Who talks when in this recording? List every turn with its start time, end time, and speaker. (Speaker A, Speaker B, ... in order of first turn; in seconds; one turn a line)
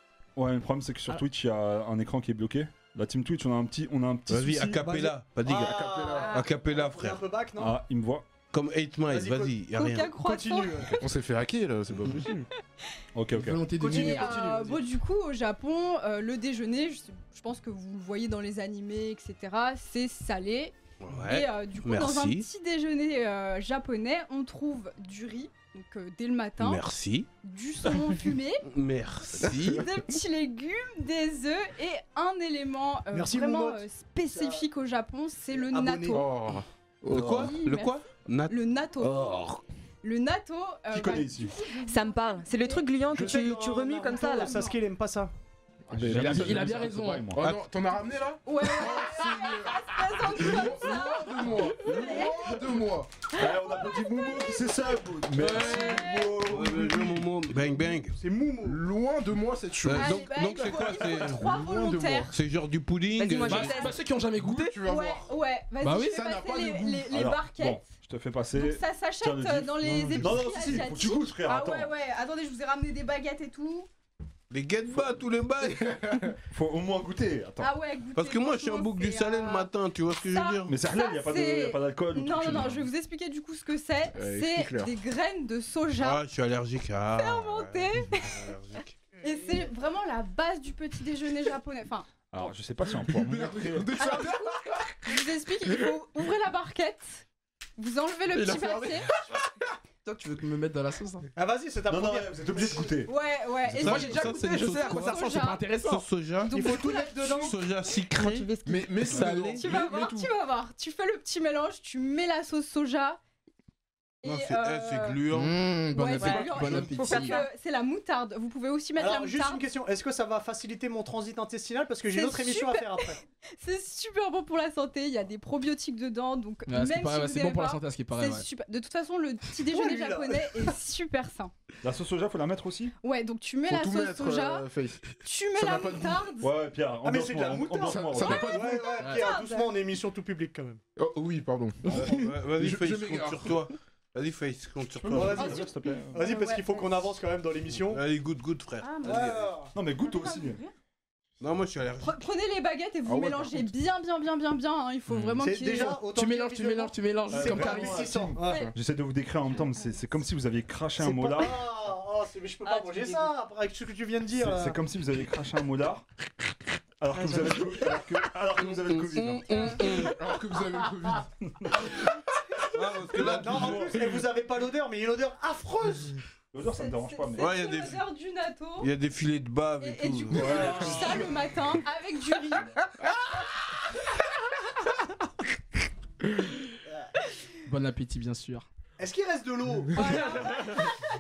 Speaker A: 0.4-4.8
Speaker B: 4.3-7.2
Speaker C: 4.8-7.8
Speaker D: 5.5-6.4
Speaker A: 7.6-8.3
Speaker B: 8.5-10.2
Speaker C: 9.1-10.9
Speaker E: 9.7-10.9
Speaker D: 11.0-12.5
Speaker A: 13.1-13.6
Speaker F: 13.4-14.8
Speaker D: 13.4-14.4
Speaker E: 13.8-26.9
Speaker B: 21.0-22.5
Speaker B: 26.6-27.3
Speaker E: 27.4-28.6
Speaker B: 28.7-29.9
Speaker D: 29.4-29.9
Speaker E: 29.4-36.3
Speaker C: 33.1-34.7
Speaker C: 35.5-36.3
Speaker D: 36.1-37.5
Speaker B: 37.0-39.2
Speaker E: 37.1-39.5
Speaker E: 40.0-42.9
Speaker A: 40.9-41.5
Speaker G: 41.8-44.6
Speaker C: 43.1-45.3
Speaker D: 45.9-53.3
Speaker A: 45.9-47.6
Speaker F: 46.1-47.3
Speaker E: 48.5-52.8
Speaker A: 53.3-57.2
Speaker E: 53.4-54.8
Speaker F: 55.3-56.4
Speaker E: 55.4-56.5
Speaker B: 56.4-58.2
Speaker C: 58.1-58.8
Speaker D: 58.6-60.4
Speaker B: 59.9-61.6
Speaker E: 59.9-62.4
Speaker A: 60.6-61.2
Speaker D: 61.2-62.3
Speaker B: 62.3-64.0
Speaker G: 63.2-64.0
Speaker F: 63.5-64.8
Speaker D: 64.3-65.3
Speaker E: 64.8-67.9
Speaker F: 65.8-66.2
Speaker D: 66.1-67.1
Speaker A: 67.1-71.9
Speaker E: 68.5-73.9
Speaker B: 74.5-76.2
Speaker D: 75.8-76.3
Speaker A: 76.5-77.7
Speaker E: 77.6-79.7
Speaker B: 78.2-80.7
Speaker E: 80.3-86.2
Speaker A: 80.7-82.9
Speaker D: 84.1-84.9
Speaker B: 86.0-88.9
Speaker E: 87.2-92.1
Speaker A: 92.3-94.2
Speaker D: 92.8-95.1
Speaker E: 94.0-97.2
Speaker E: 97.8-99.1
Speaker D: 98.4-99.0
Speaker F: 100.0-101.3
Speaker C: 101.4-103.0
Speaker A: 101.9-103.1
Speaker E: 103.1-105.7
Speaker B: 103.7-108.5
Speaker F: 103.7-106.1
Speaker E: 106.4-107.5
Speaker C: 106.5-107.7
Speaker G: 108.2-109.0
Speaker D: 108.7-110.3
Speaker F: 109.1-109.6
Speaker B: 109.1-109.6
Speaker E: 109.6-113.2
Speaker E: 114.2-115.2
Speaker B: 114.2-115.7
Speaker F: 115.3-117.5
Speaker E: 115.9-119.6
Speaker G: 116.2-117.5
Speaker C: 119.0-123.2
Speaker E: 122.1-131.5
Speaker F: 126.7-128.5
Speaker C: 129.7-130.7
Speaker A: 131.8-132.9
Speaker E: 133.0-134.7
Speaker D: 133.7-136.3
Speaker E: 135.2-136.5
Speaker A: 136.4-138.6
Speaker C: 137.0-140.8
Speaker D: 137.9-138.9
Speaker E: 138.3-139.8
Speaker F: 139.0-139.3
Speaker D: 141.0-143.6
Speaker A: 141.9-142.3
Speaker B: 141.9-145.6
Speaker A: 145.0-146.2
Speaker C: 145.2-148.0
Speaker E: 146.1-147.0
Speaker B: 147.7-149.6
Speaker E: 148.8-149.1
Speaker C: 149.0-149.7
Speaker A: 149.7-150.6
Speaker E: 150.0-150.7
Speaker B: 151.4-152.2
Speaker E: 152.0-156.0
Speaker D: 153.1-153.7
Speaker C: 155.4-158.7
Speaker F: 155.9-158.1
Speaker A: 157.3-161.7
Speaker E: 158.4-158.7
Speaker C: 161.0-164.8
Speaker G: 162.7-163.3
Speaker A: 164.3-166.1
Speaker A: 167.0-169.8
Speaker B: 168.6-170.2
Speaker E: 169.5-170.1
Speaker D: 169.9-171.3
Speaker A: 171.5-171.9
Speaker B: 172.7-174.0
Speaker A: 173.2-174.2
Speaker C: 173.2-176.2
Speaker A: 176.5-177.6
Speaker E: 176.6-178.9
Speaker B: 177.4-178.0
Speaker B: 178.8-181.0
Speaker E: 179.8-182.8
Speaker A: 180.3-181.4
Speaker C: 180.5-181.3
Speaker F: 187.7-188.7
Speaker C: 189.0-190.9
Speaker E: 189.9-191.0